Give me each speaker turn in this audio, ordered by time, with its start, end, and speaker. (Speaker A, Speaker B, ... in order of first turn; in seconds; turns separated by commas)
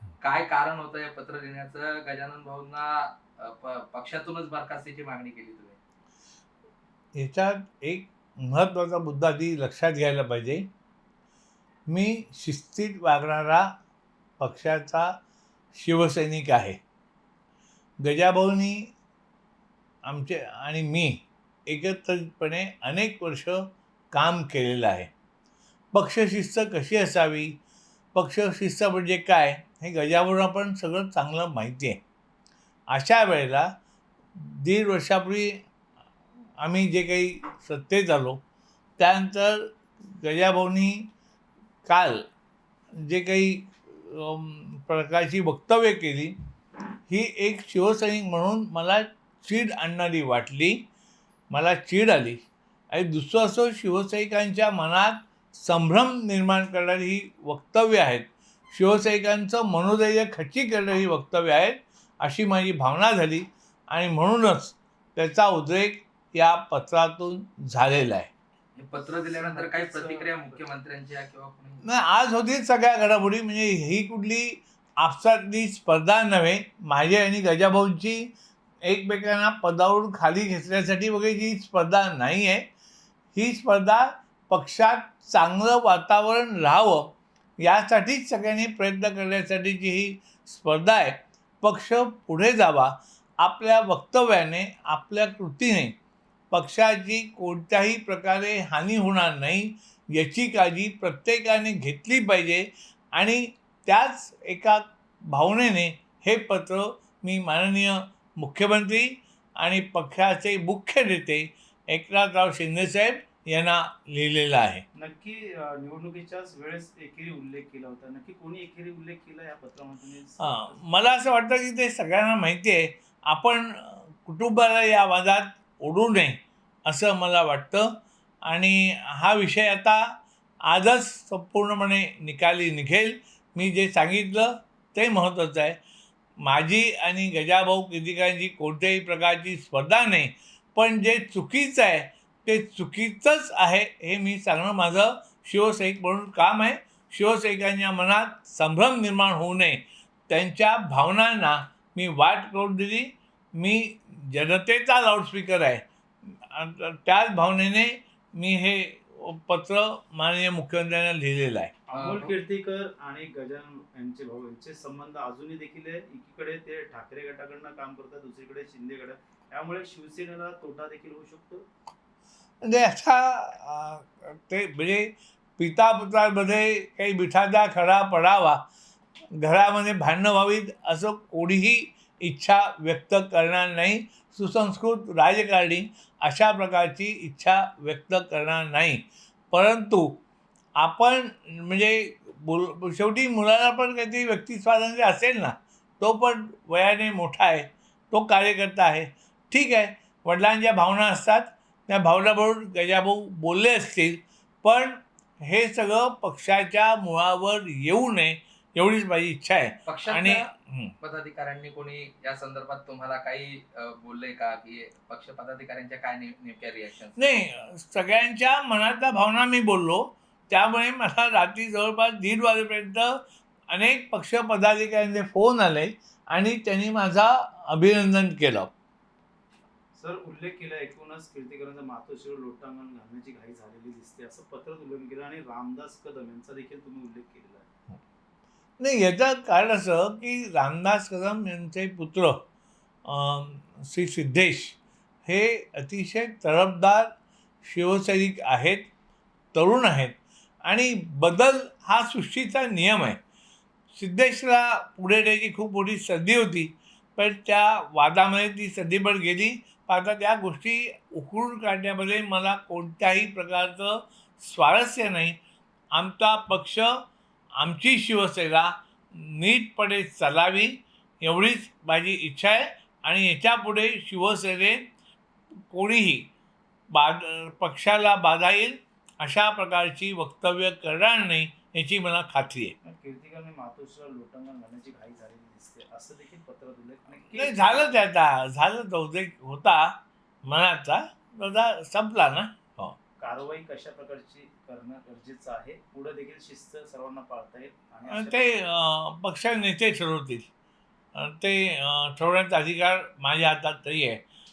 Speaker A: 0.2-5.8, Speaker B: 7.2-10.7, Speaker B: 11.9-13.7, Speaker B: 14.4-15.1, Speaker B: 15.7-16.8, Speaker B: 18.0-18.9, Speaker B: 20.1-25.1, Speaker B: 25.9-27.6, Speaker B: 28.1-32.0, Speaker B: 32.9-33.8, Speaker B: 34.4-35.6, Speaker B: 36.6-38.4, Speaker B: 39.0-41.1, Speaker B: 41.9-42.3, Speaker B: 43.0-46.4, Speaker B: 47.1-50.9, Speaker B: 51.5-68.3, Speaker A: 68.8-71.8, Speaker C: 69.3-70.6, Speaker B: 71.8-78.3, Speaker B: 78.8-82.7, Speaker B: 83.3-96.0, Speaker B: 96.5-114.8, Speaker C: 115.0-120.8, Speaker B: 120.4-135.8, Speaker B: 136.4-155.8, Speaker B: 156.5-161.7, Speaker C: 161.9-171.7, Speaker A: 161.9-162.3, Speaker B: 172.6-178.6, Speaker B: 179.4-190.2, Speaker B: 190.8-210.9, Speaker A: 209.9-210.5, Speaker A: 211.0-217.2, Speaker B: 217.2-228.7, Speaker C: 229.9-237.7, Speaker B: 238.8-242.4, Speaker B: 243.1-248.9, Speaker B: 249.5-253.2, Speaker B: 253.9-265.4, Speaker B: 265.9-267.0, Speaker B: 267.6-274.8, Speaker B: 275.7-276.3, Speaker B: 276.9-282.8, Speaker C: 282.8-287.9, Speaker B: 287.3-293.0, Speaker C: 293.2-298.6, Speaker B: 298.1-300.5, Speaker B: 301.1-304.2